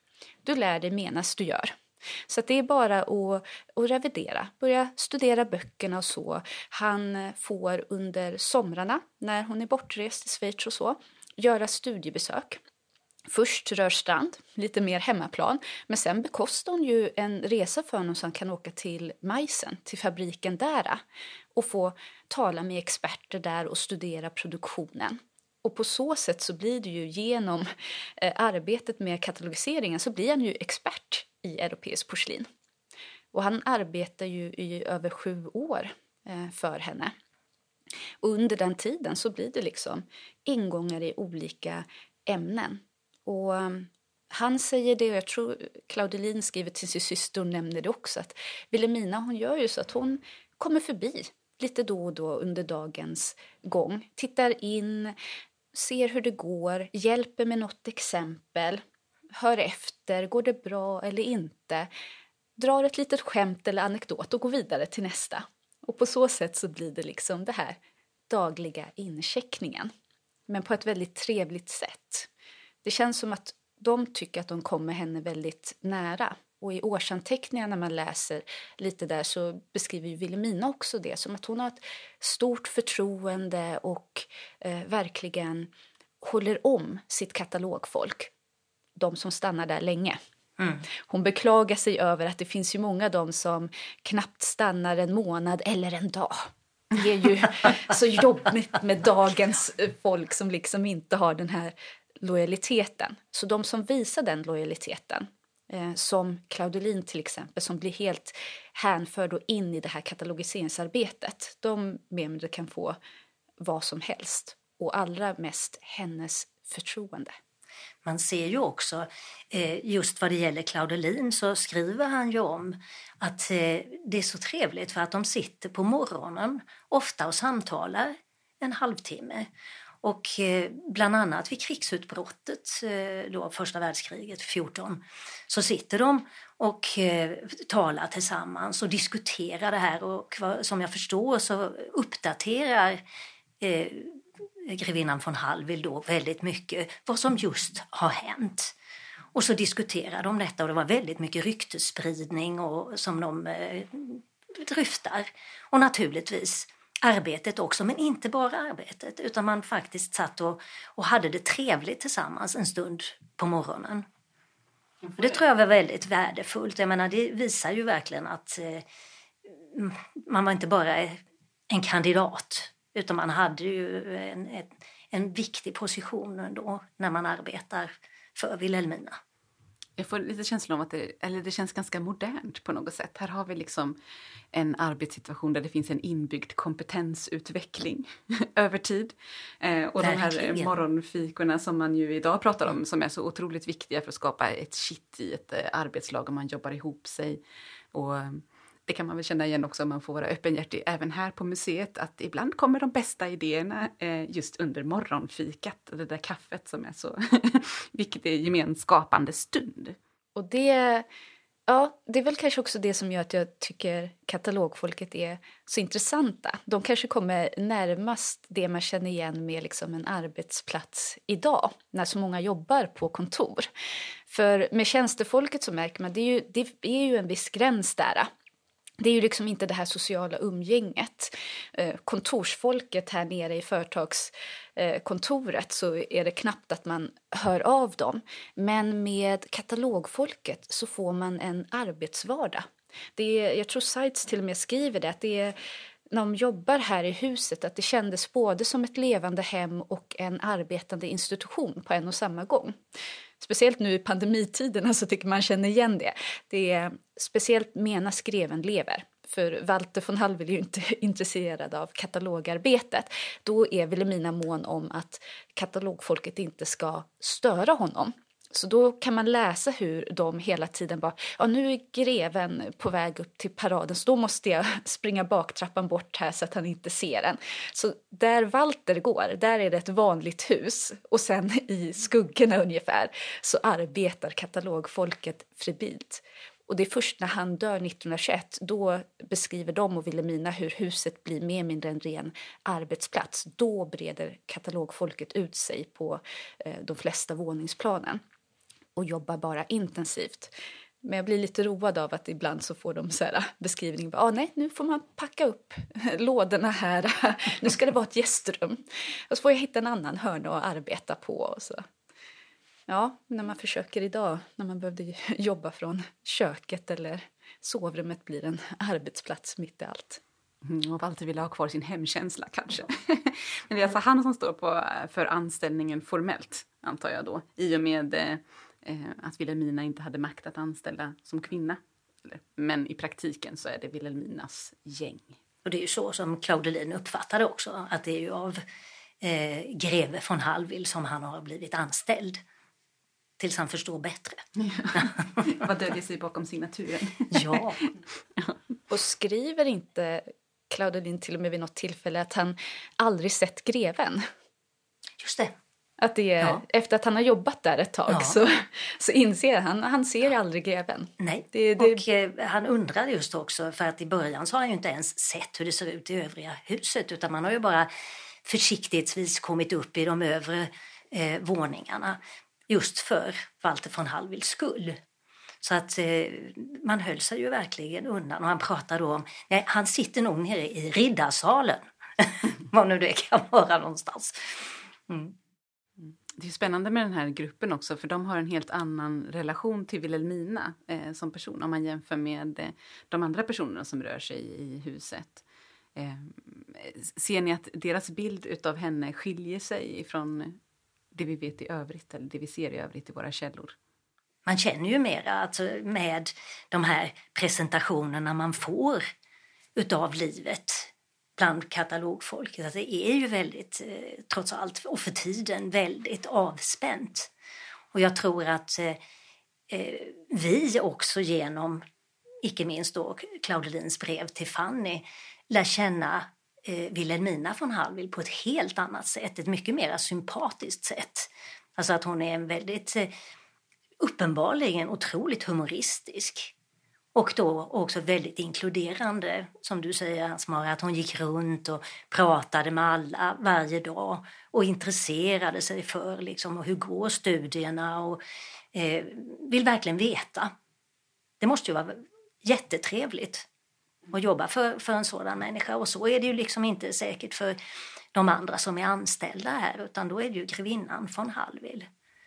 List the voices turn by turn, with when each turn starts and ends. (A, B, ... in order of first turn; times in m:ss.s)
0:00.4-0:01.7 A
0:02.3-0:12.6 A
0:13.3-0:21.0 A
0:21.6-0:32.5 A
0:33.3-0:37.1 A
0:38.2-0:55.1 A
0:55.7-0:58.8 A
0:59.3-1:01.9 A
1:02.6-1:07.8 A
1:08.3-1:09.9 A
1:10.5-1:12.3 A
1:12.8-1:28.3 A
1:29.0-1:30.2 A
1:30.6-1:30.8 B
1:31.0-1:53.0 A
1:53.6-1:57.4 A
1:58.0-2:09.5 B
2:10.0-2:23.0 B
2:23.6-2:28.7 B
2:29.3-2:44.1 B
2:45.1-2:48.8 B
2:49.5-2:59.2 B
3:00.0-3:04.0 C
3:04.5-3:17.4 C
3:10.0-3:10.7 B
3:17.9-3:30.0 C
3:30.4-3:31.1 A
3:31.7-3:43.7 A
3:44.3-3:48.3 A
3:49.0-4:05.6 A
4:06.1-4:12.8 A
4:13.4-4:58.2 A
4:59.0-5:11.9 A
5:12.9-5:20.2 A
5:20.6-5:35.4 C
5:35.6-5:38.6 B
5:39.2-5:42.4 B
5:43.4-5:44.4 B
5:44.6-5:47.7 C
5:44.9-5:45.4 B
5:47.3-5:47.8 B
5:48.9-5:54.3 A
5:55.2-5:55.6 B
5:56.0-6:02.0 A
5:58.1-5:58.4 B
6:01.2-6:07.9 B
6:08.4-6:15.0 B
6:15.6-6:25.4 B
6:26.0-6:35.4 C
6:35.9-6:40.6 C
6:41.1-6:43.8 C
6:44.4-6:49.1 B
6:49.8-6:57.3 B
6:57.9-6:59.0 B
6:59.7-7:01.8 B
7:02.4-7:13.1 B
7:14.0-7:16.5 B
7:17.1-7:28.2 B
7:28.7-7:30.5 B
7:31.4-7:33.4 B
7:34.1-7:37.6 B
7:38.1-7:41.9 B